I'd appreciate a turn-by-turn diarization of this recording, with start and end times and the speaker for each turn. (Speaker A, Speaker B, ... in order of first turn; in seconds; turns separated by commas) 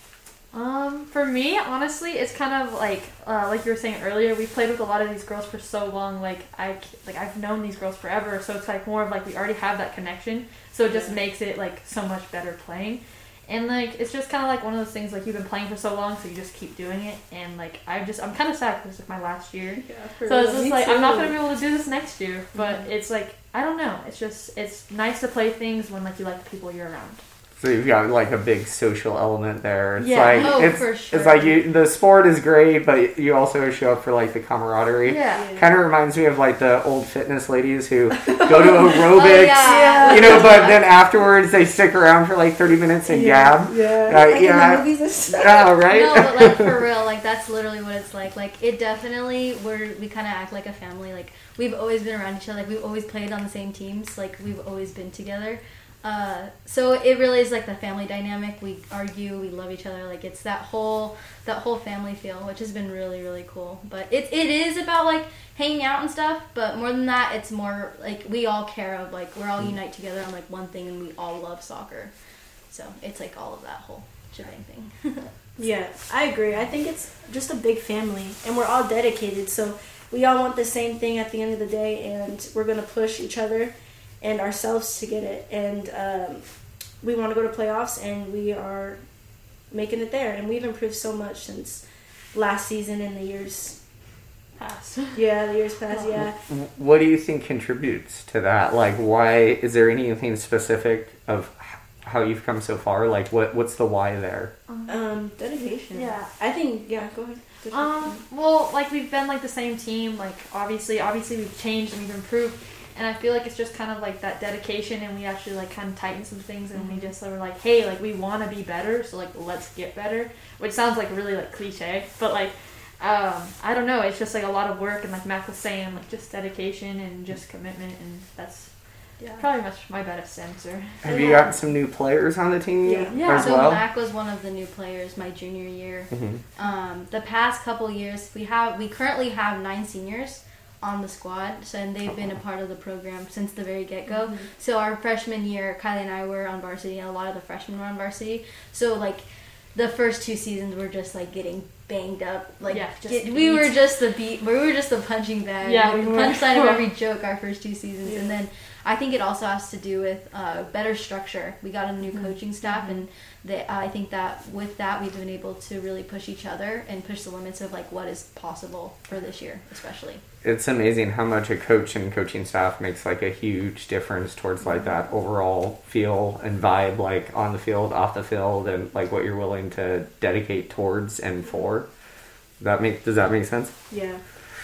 Speaker A: 0.5-27.2, Speaker B: 10.8-11.2, Speaker B: 19.8-21.4, Speaker C: 27.6-46.7, Speaker A: 30.0-30.6, Speaker D: 30.3-31.6, Speaker A: 35.0-35.5, Speaker B: 35.3-35.7, Speaker B: 38.2-39.0, Speaker D: 39.1-40.9, Speaker B: 39.6-40.7, Speaker B: 43.1-45.8, Speaker D: 45.9-72.1, Speaker D: 72.7-75.3, Speaker B: 75.6-86.4, Speaker B: 87.0-89.0, Speaker B: 89.7-93.8, Speaker A: 94.6-95.2, Speaker B: 95.1-96.4, Speaker C: 96.2-104.5, Speaker A: 104.7-105.0, Speaker B: 104.9-108.2, Speaker A: 105.9-106.2, Speaker A: 107.7-128.7, Speaker B: 116.7-117.1, Speaker D: 129.2-129.4, Speaker A: 129.3-131.2, Speaker C: 131.0-133.9, Speaker B: 131.1-131.6, Speaker B: 132.8-133.2, Speaker A: 133.1-133.6, Speaker D: 133.3-170.2, Speaker C: 136.1-136.4, Speaker A: 152.7-153.8, Speaker A: 155.6-156.8, Speaker B: 158.1-158.3, Speaker A: 162.6-163.0, Speaker C: 170.4-181.9, Speaker B: 174.6-175.0, Speaker C: 182.6-183.7, Speaker B: 183.9-184.2